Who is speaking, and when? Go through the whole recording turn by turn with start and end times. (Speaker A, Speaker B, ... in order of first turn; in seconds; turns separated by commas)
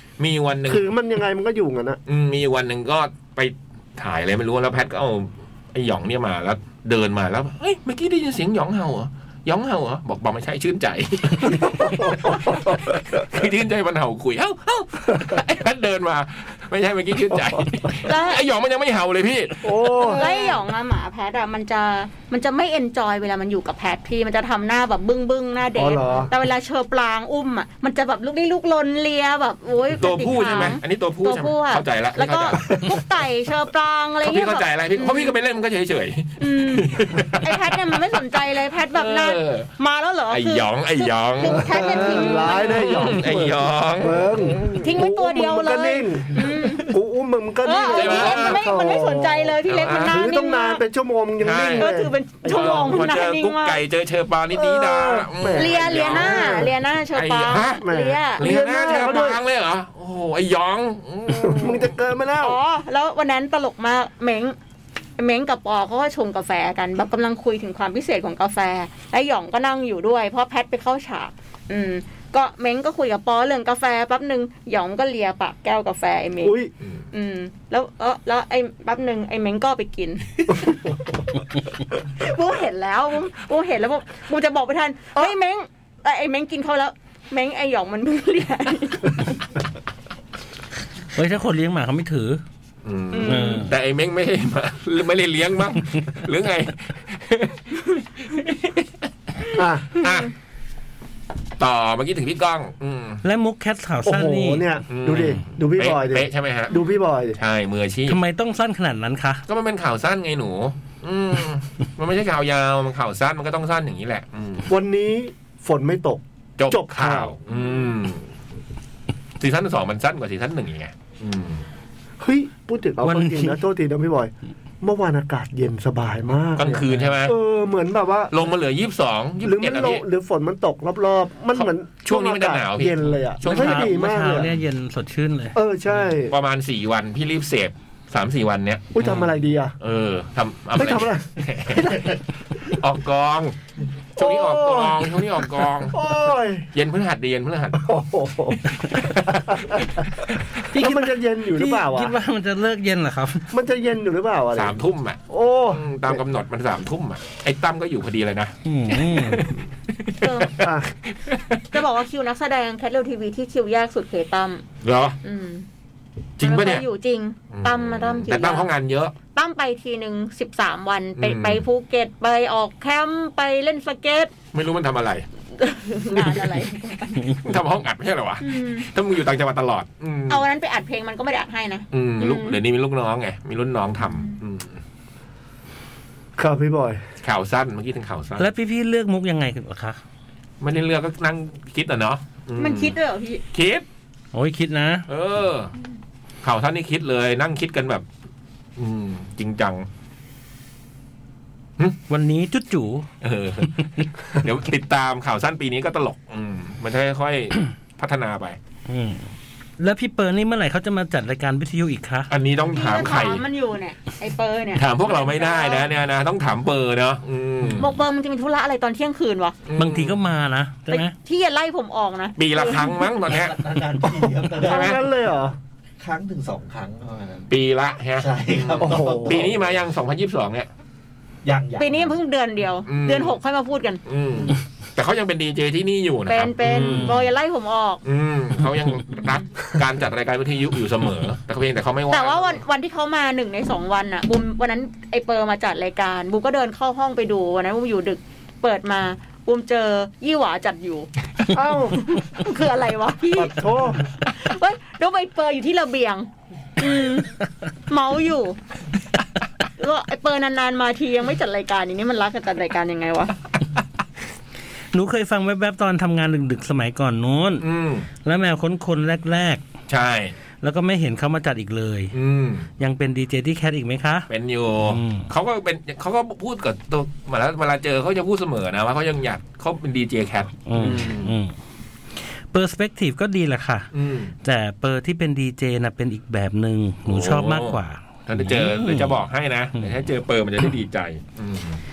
Speaker A: 0.2-0.8, Speaker B: 0.7-2.0, Speaker A: 2.1-19.7, Speaker B: 11.4-12.8, Speaker B: 17.3-17.7, Speaker C: 18.0-18.4, Speaker B: 19.6-20.6, Speaker C: 20.0-35.4, Speaker B: 25.8-26.3, Speaker A: 30.0-33.0, Speaker A: 34.2-38.0, Speaker C: 36.4-43.1, Speaker A: 38.9-39.7, Speaker A: 40.3-44.8, Speaker B: 41.4-53.0, Speaker C: 44.8-46.9, Speaker C: 47.6-50.8, Speaker A: 47.9-48.7, Speaker A: 49.7-50.2, Speaker A: 51.4-51.9, Speaker C: 51.8-53.8, Speaker A: 52.4-57.8, Speaker B: 54.5-56.7, Speaker C: 55.5-59.0, Speaker B: 57.8-59.4, Speaker A: 58.4-61.9, Speaker B: 61.3-62.6, Speaker C: 62.4-64.6, Speaker C: 65.2-76.6, Speaker B: 76.4-76.7, Speaker C: 77.1-80.8, Speaker B: 80.6-80.9, Speaker C: 82.2-89.2, Speaker D: 91.1-92.4, Speaker A: 92.8-98.9, Speaker C: 93.1-93.7, Speaker D: 93.2-93.7, Speaker B: 99.5-100.0, Speaker A: 100.0-100.3, Speaker A: 101.6-103.2, Speaker D: 103.2-104.7, Speaker B: 104.0-107.4, Speaker A: 104.9-106.7, Speaker A: 107.4-108.2, Speaker D: 108.1-109.4, Speaker A: 109.5-114.7, Speaker B: 114.7-117.3, Speaker A: 116.6-118.3, Speaker A: 119.4-121.6, Speaker B: 122.2-128.4, Speaker D: 123.0-123.6, Speaker A: 126.6-127.4, Speaker A: 128.3-130.0, Speaker B: 129.4-134.5, Speaker A: 131.5-134.0, Speaker D: 133.4-135.6, Speaker B: 135.6-136.3, Speaker A: 135.9-139.3, Speaker B: 138.9-139.8, Speaker A: 139.8-142.1, Speaker B: 140.8-142.2, Speaker A: 142.7-143.6, Speaker B: 144.2-145.2, Speaker A: 144.2-146.0, Speaker B: 145.9-146.7, Speaker A: 146.7-147.8, Speaker B: 147.8-150.1, Speaker B: 150.7-152.2, Speaker D: 150.7-153.5, Speaker B: 153.5-154.8, Speaker A: 154.5-155.2, Speaker B: 155.3-156.2, Speaker A: 155.7-161.6, Speaker D: 158.7-159.4, Speaker C: 160.2-160.6, Speaker B: 160.6-160.9, Speaker C: 161.7-164.6, Speaker A: 164.8-165.2, Speaker C: 165.2-165.7, Speaker A: 166.4-166.8, Speaker C: 166.4-168.7, Speaker A: 167.5-169.1, Speaker C: 169.3-174.3, Speaker A: 171.2-171.6, Speaker A: 174.5-175.3, Speaker C: 175.6-177.4, Speaker A: 177.4-180.4, Speaker C: 178.4-178.9, Speaker C: 180.3-182.6, Speaker A: 181.9-184.8, Speaker B: 186.4-187.0, Speaker A: 187.2-188.5, Speaker D: 188.4-190.0, Speaker A: 190.6-193.0, Speaker C: 192.6-193.4, Speaker A: 193.5-193.8, Speaker D: 194.3-195.1, Speaker A: 195.1-195.7, Speaker A: 196.4-198.1, Speaker A: 198.8-199.9, Speaker D: 202.1-203.1, Speaker A: 203.2-208.6, Speaker D: 203.8-204.1, Speaker D: 208.9-212.3, Speaker A: 212.3-213.4, Speaker C: 212.7-215.9, Speaker A: 214.8-217.9, Speaker C: 217.8-219.6, Speaker A: 219.7-220.2, Speaker D: 219.8-221.1, Speaker C: 220.9-223.0, Speaker A: 222.4-223.7, Speaker E: 223.3-225.0, Speaker B: 224.0-225.6, Speaker A: 224.6-225.0, Speaker E: 226.0-227.5, Speaker A: 227.5-230.7, Speaker E: 228.2-229.7, Speaker B: 228.8-229.5, Speaker E: 231.4-232.2, Speaker C: 231.8-234.0, Speaker A: 232.9-233.3, Speaker A: 234.1-237.2, Speaker C: 236.3-238.0, Speaker D: 236.7-237.2, Speaker A: 238.0-242.6, Speaker C: 242.1-251.1, Speaker B: 251.5-252.0, Speaker C: 252.0-253.6, Speaker B: 253.3-254.0, Speaker C: 254.2-257.3, Speaker C: 257.9-258.6, Speaker C: 259.8-263.3, Speaker D: 264.9-267.7, Speaker A: 267.6-268.1, Speaker D: 268.2-269.6, Speaker A: 269.9-270.4, Speaker D: 270.6-272.1, Speaker A: 272.1-272.7, Speaker D: 272.8-274.3, Speaker A: 274.3-281.3, Speaker D: 274.8-275.3, Speaker D: 280.6-281.6, Speaker D: 282.2-283.9, Speaker A: 283.9-284.3, Speaker D: 284.4-289.1, Speaker A: 287.1-291.8